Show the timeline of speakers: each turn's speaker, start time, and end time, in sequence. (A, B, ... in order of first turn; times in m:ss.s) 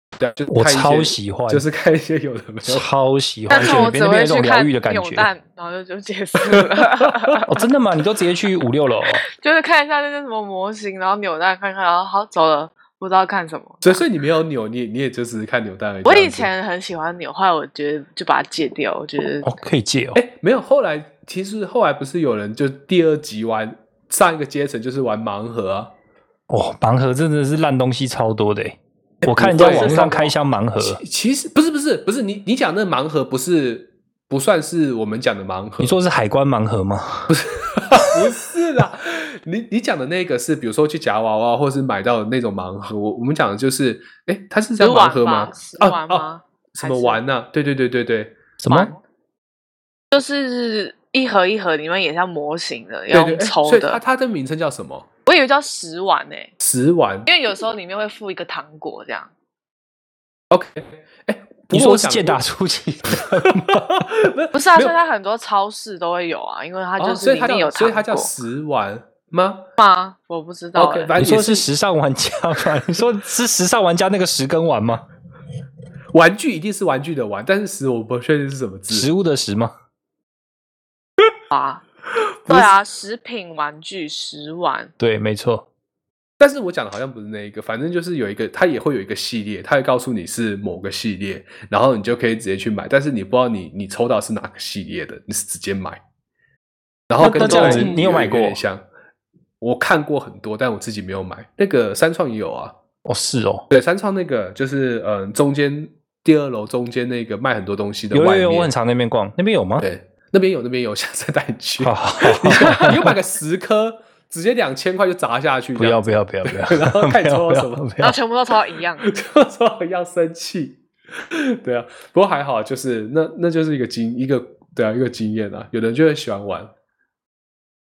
0:00.2-0:02.9 A
0:00.5-0:01.6 B
0:02.6-0:05.3 B
0:03.5-0:03.8 A
0:03.5-0:07.6 C
0:06.4-0:07.3 A
0:07.4-0:09.2 B
0:09.3-0:14.0 C
0:13.8-0:16.5 A
0:16.0-0:19.5 C
0:19.4-0:20.2 B
0:20.1-0:25.9 A
0:26.5-0:31.0 B
0:29.2-0:36.0 A
0:29.6-0:30.2 C
0:35.8-0:37.3 B
0:37.3-0:48.4 A
0:44.8-0:47.2 C
0:48.6-0:48.9 B
0:48.7-0:49.0 C
0:50.1-0:54.0 C
0:53.1-0:55.1 A
0:55.2-0:56.5 C
0:56.6-0:57.3 A
0:57.3-0:59.3 C
1:00.5-1:02.4 A
1:01.7-1:03.8 B
1:03.1-1:05.0 A
1:04.5-1:08.3 C
1:07.0-1:09.6 A
1:09.8-1:11.1 C
1:10.8-1:11.7 A
1:11.2-1:15.0 B
1:16.1-1:19.1 A
1:18.9-1:19.7 B
1:21.5-1:21.8 C
1:22.5-1:24.9 C
1:25.0-1:25.6 B
1:26.4-1:36.0 A
1:37.1-1:38.8 A
1:37.2-1:38.6 B
1:37.4-1:37.9 C
1:39.6-1:42.7 A
1:43.0-1:43.7 B
1:43.7-1:48.7 A
1:48.1-1:49.9 B
1:49.8-1:57.9 A
1:51.8-1:53.0 B
1:55.8-1:58.2 B
1:58.0-1:59.1 C
1:59.0-2:06.7 A